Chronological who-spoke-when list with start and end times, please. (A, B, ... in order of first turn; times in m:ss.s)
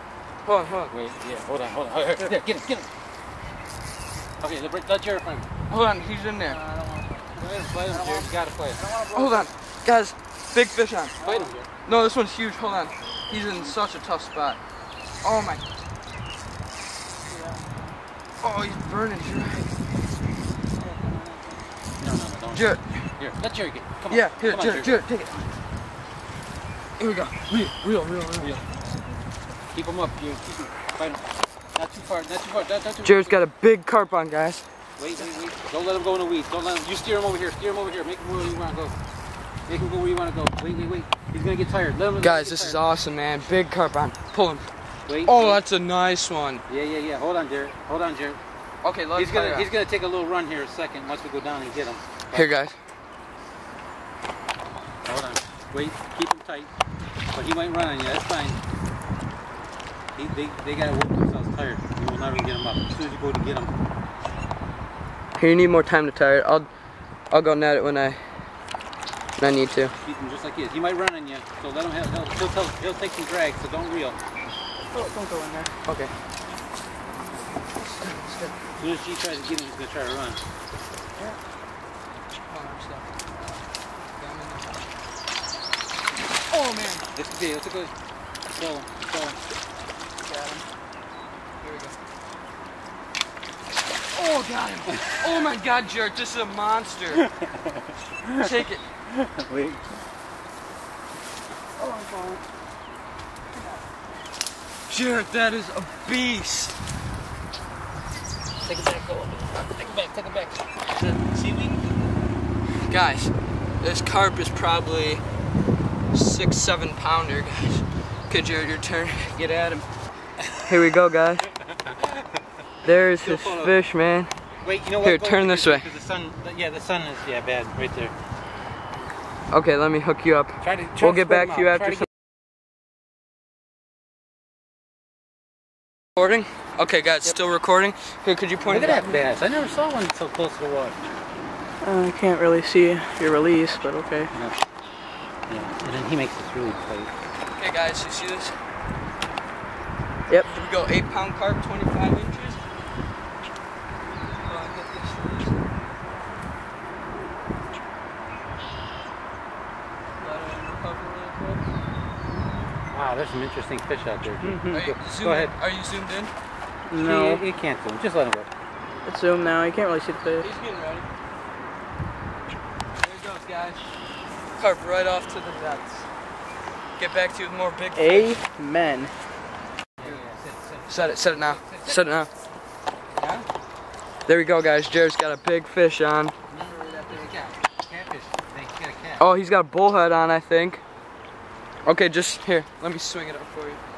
0:00.4-0:00.9 A
0:00.9-0:02.9 B
0:04.4-0:05.5 B
0:05.7-0:06.6 A
0:06.5-0:08.2 C
0:07.4-0:08.8 B
0:08.8-0:09.5 C
0:09.1-0:11.2 A
0:11.2-0:11.5 C
0:11.2-0:11.7 B
0:11.8-0:14.6 A
0:15.2-0:15.6 A
0:17.3-0:17.9 C
0:18.4-0:19.7 A
0:20.8-0:21.7 C
0:22.0-0:25.0 B
0:22.5-0:23.1 A
0:24.1-0:25.5 A
0:27.0-0:28.6 A
0:28.4-0:28.7 B
0:29.7-0:33.4 B
0:33.0-0:34.6 A
0:35.0-0:38.9 B
0:39.7-0:42.8 B
0:42.2-0:44.7 A
0:45.1-0:45.6 B
0:45.2-0:46.6 A
0:46.7-0:48.4 B
0:48.8-0:49.7 A
0:49.1-0:52.5 B
0:52.3-0:52.8 A
0:55.0-0:56.7 B
0:57.3-0:58.6 B
1:00.1-1:03.7 B
1:05.4-1:06.7 A
1:07.3-1:08.2 A
1:09.4-1:09.9 A
1:10.0-1:14.2 B
1:14.9-1:15.7 C
1:15.8-1:16.1 A
1:17.7-1:18.6 A
1:18.8-1:20.4 B
1:22.5-1:23.6 A
1:24.1-1:24.8 A
1:26.5-1:27.1 A
1:27.1-1:27.9 B
1:28.4-1:29.4 B
1:30.2-1:30.6 A
1:31.6-1:32.0 A
1:34.1-1:37.2 A
1:38.4-1:38.8 A
1:39.2-1:40.0 B
1:41.8-1:42.4 B
1:44.9-1:46.8 A
1:48.6-1:52.1 B
1:52.8-1:55.2 A
1:56.1-1:59.8 A
2:00.6-2:01.5 A
2:02.8-2:04.3 A
2:03.2-2:03.8 B
2:04.6-2:08.1 B
2:05.0-2:05.9 A
2:09.5-2:12.1 A
2:10.6-2:12.1 B
2:16.2-2:19.2 A
2:18.7-2:21.1 B
2:21.8-2:24.3 C
2:25.5-2:27.1 B
2:27.5-2:28.6 A
2:30.4-2:32.6 A
2:34.4-2:35.7 A
2:40.2-2:41.6 A
2:42.9-2:45.5 B
2:44.4-2:44.9 C
2:44.7-2:46.3 A
2:46.9-2:47.4 C
2:47.0-2:48.5 B
2:49.0-2:50.5 C
2:50.4-2:51.1 A
2:53.0-2:53.8 A
2:54.6-2:56.1 A
2:57.0-2:58.4 A
2:57.9-2:59.1 C
3:00.0-3:02.2 B
3:00.9-3:02.3 A
3:03.2-3:03.5 B
3:04.2-3:06.3 A
3:06.5-3:09.3 B
3:09.2-3:10.8 A
3:11.8-3:13.8 A